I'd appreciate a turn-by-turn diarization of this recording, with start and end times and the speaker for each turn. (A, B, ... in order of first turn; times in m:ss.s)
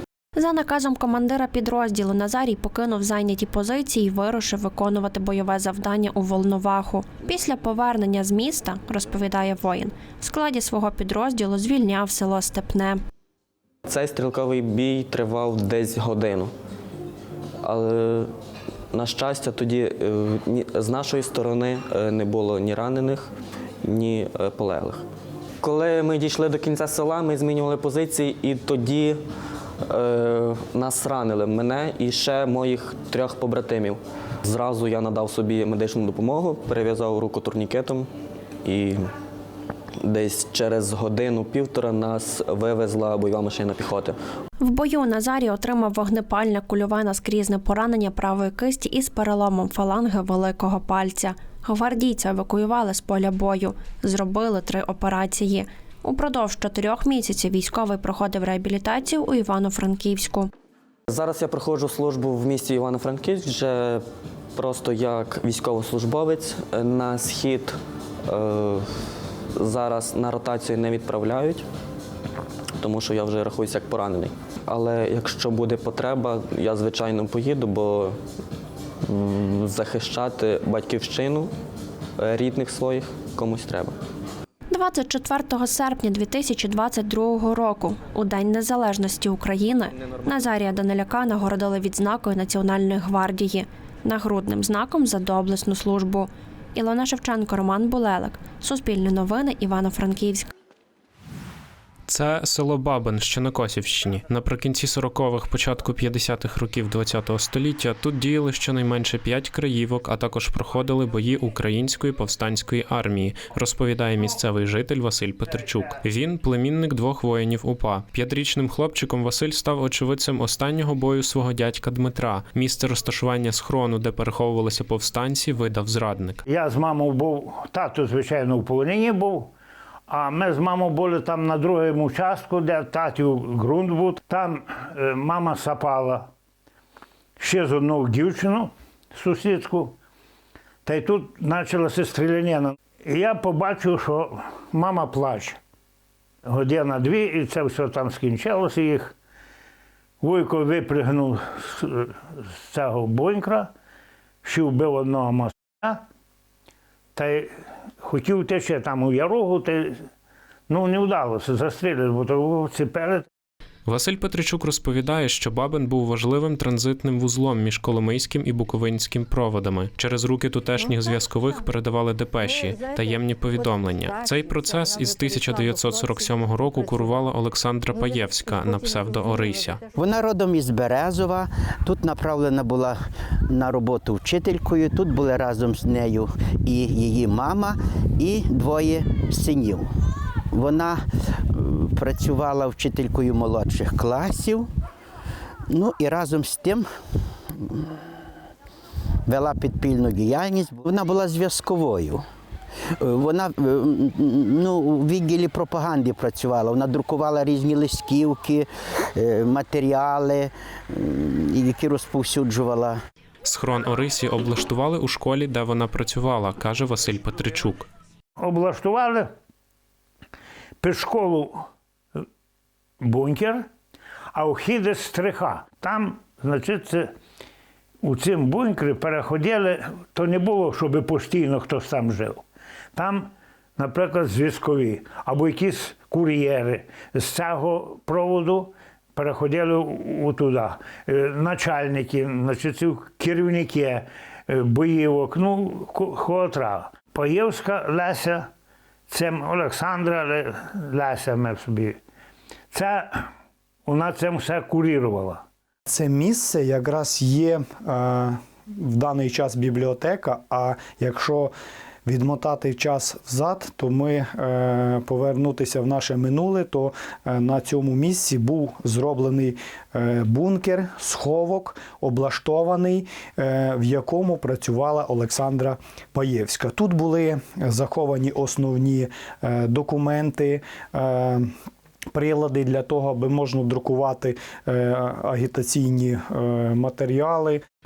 0:00.4-0:13.0 A
0:13.9-0:16.5 B
0:17.6-0:18.3 B
0:18.9-0:23.3 B
0:23.8-0:25.0 B
0:25.6-0:29.2 B
0:29.9-0:38.1 B
0:38.6-0:39.1 B
0:40.0-0:44.1 B
0:44.6-1:00.5 A
1:01.1-1:04.0 B
1:04.6-1:07.8 B
1:08.3-1:08.8 B
1:09.6-1:11.6 B
1:12.8-1:18.2 B
1:19.0-1:21.5 B
1:22.2-1:24.0 B
1:24.7-1:40.5 A
1:42.1-2:06.4 C
2:06.4-2:09.5 D
2:10.1-2:16.3 D
2:17.4-2:20.0 D
2:20.8-2:25.6 D
2:26.4-2:29.1 D
2:30.2-2:33.7 D
2:34.4-2:36.0 D
2:37.2-2:40.0 D
2:40.7-2:43.2 D
2:43.8-2:59.8 C
2:59.9-3:03.0 E
3:03.5-3:09.9 E
3:10.5-3:11.0 E
3:11.5-3:14.7 E
3:15.7-3:16.8 E
3:19.3-3:22.2 E
3:23.0-3:33.0 E
3:33.4-3:37.9 C
3:38.4-3:39.3 D
3:40.8-3:41.6 D
3:43.0-3:43.6 D
3:44.3-3:47.1 D
3:48.0-3:52.4 D
3:53.0-4:08.5 D
4:09.1-4:12.0 D
4:12.7-4:13.2 D
4:13.9-4:15.4 D
4:15.9-4:21.5 F
4:22.0-4:41.5 F
4:42.1-4:47.6 F